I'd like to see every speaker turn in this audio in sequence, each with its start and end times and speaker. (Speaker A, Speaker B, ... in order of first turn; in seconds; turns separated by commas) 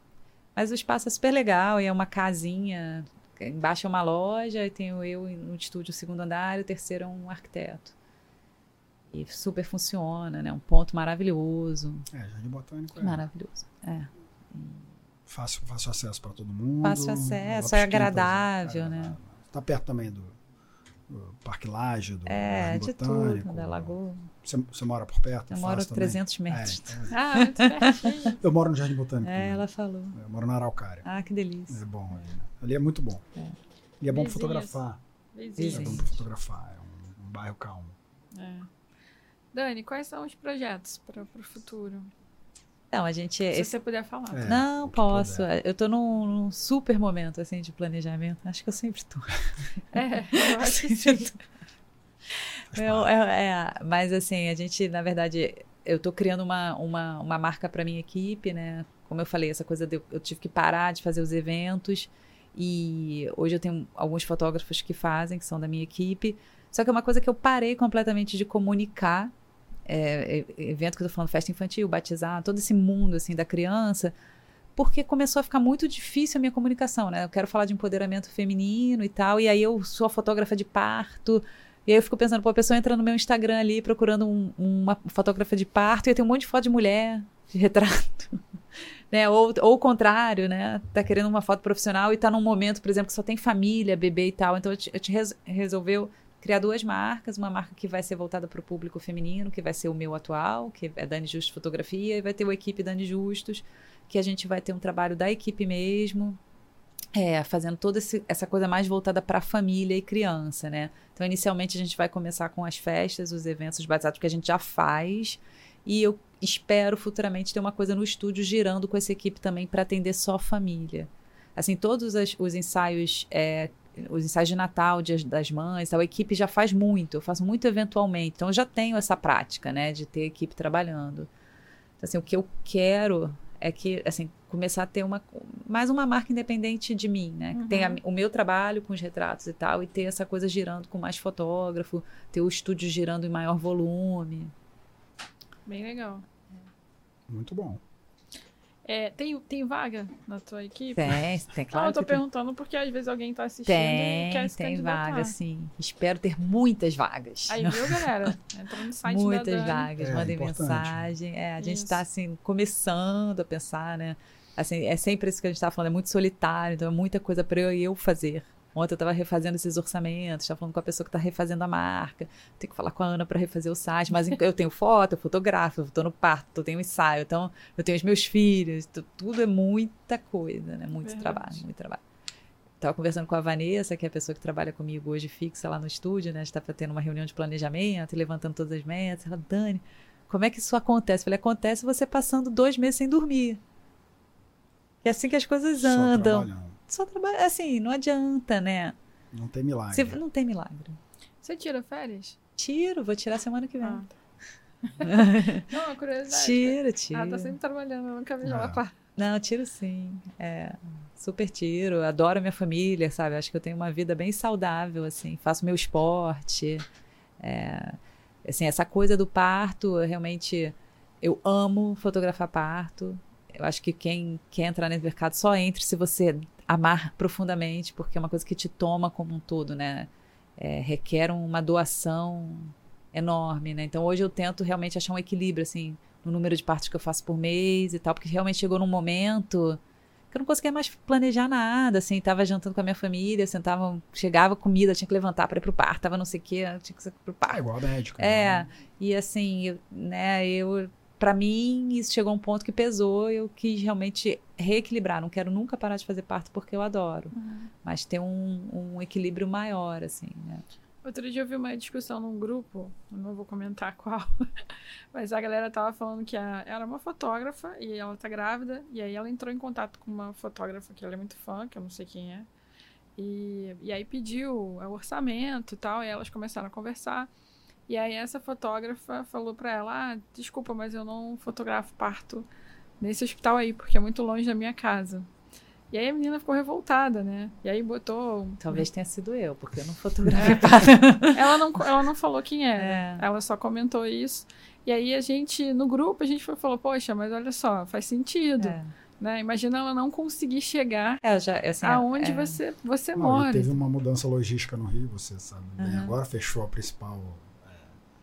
Speaker A: 0.6-7.9, Speaker A: 9.1-12.1, Speaker B: 12.1-13.2, Speaker A: 13.0-14.8, Speaker B: 15.3-20.4, Speaker A: 16.8-19.2, Speaker B: 21.1-27.2, Speaker A: 22.3-24.3, Speaker A: 25.5-28.3, Speaker C: 27.1-28.4, Speaker B: 28.3-31.1, Speaker A: 29.2-30.2, Speaker A: 31.0-31.8, Speaker B: 31.7-33.2, Speaker B: 34.0-35.0, Speaker C: 34.1-34.8, Speaker C: 35.3-36.1, Speaker A: 35.6-36.1, Speaker B: 35.6-38.0, Speaker C: 38.3-38.7, Speaker C: 39.5-42.1, Speaker A: 42.9-43.8, Speaker C: 43.5-44.5, Speaker B: 44.3-45.5, Speaker A: 44.4-49.6, Speaker C: 49.9-51.4, Speaker A: 50.3-51.3, Speaker A: 52.4-69.3, Speaker B: 52.7-53.1, Speaker A: 69.9-74.1, Speaker A: 74.8-88.4, Speaker A: 89.1-106.4, Speaker A: 107.2-131.3, Speaker A: 132.0-144.5, Speaker C: 137.5-138.0, Speaker C: 145.7-146.2, Speaker B: 147.3-147.8, Speaker C: 148.8-155.3, Speaker A: 150.9-152.2, Speaker A: 153.7-158.3, Speaker C: 157.5-159.9, Speaker A: 159.0-182.0, Speaker B: 160.0-161.1, Speaker C: 161.6-162.0, Speaker C: 180.9-181.6, Speaker A: 182.8-193.6, Speaker A: 195.0-198.9, Speaker B: 195.8-196.8, Speaker B: 199.3-200.2, Speaker A: 199.9-201.0, Speaker C: 201.4-202.4, Speaker A: 202.6-204.0, Speaker C: 203.8-204.2, Speaker C: 204.8-208.9, Speaker A: 205.0-205.7, Speaker A: 206.3-207.5, Speaker B: 208.4-208.8, Speaker A: 209.2-216.8, Speaker A: 217.4-239.8, Speaker A: 240.3-247.6, Speaker B: 247.5-248.7, Speaker A: 248.2-260.6, Speaker C: 257.4-257.7, Speaker C: 261.0-272.5, Speaker C: 273.2-277.3, Speaker C: 277.9-282.5, Speaker C: 283.0-285.3, Speaker C: 285.9-288.8, Speaker A: 288.6-291.6, Speaker C: 290.3-290.7, Speaker C: 291.3-301.2, Speaker A: 292.8-293.2, Speaker A: 298.6-298.9, Speaker A: 301.2-302.6, Speaker C: 301.8-303.8, Speaker B: 303.2-308.0, Speaker A: 305.8-306.1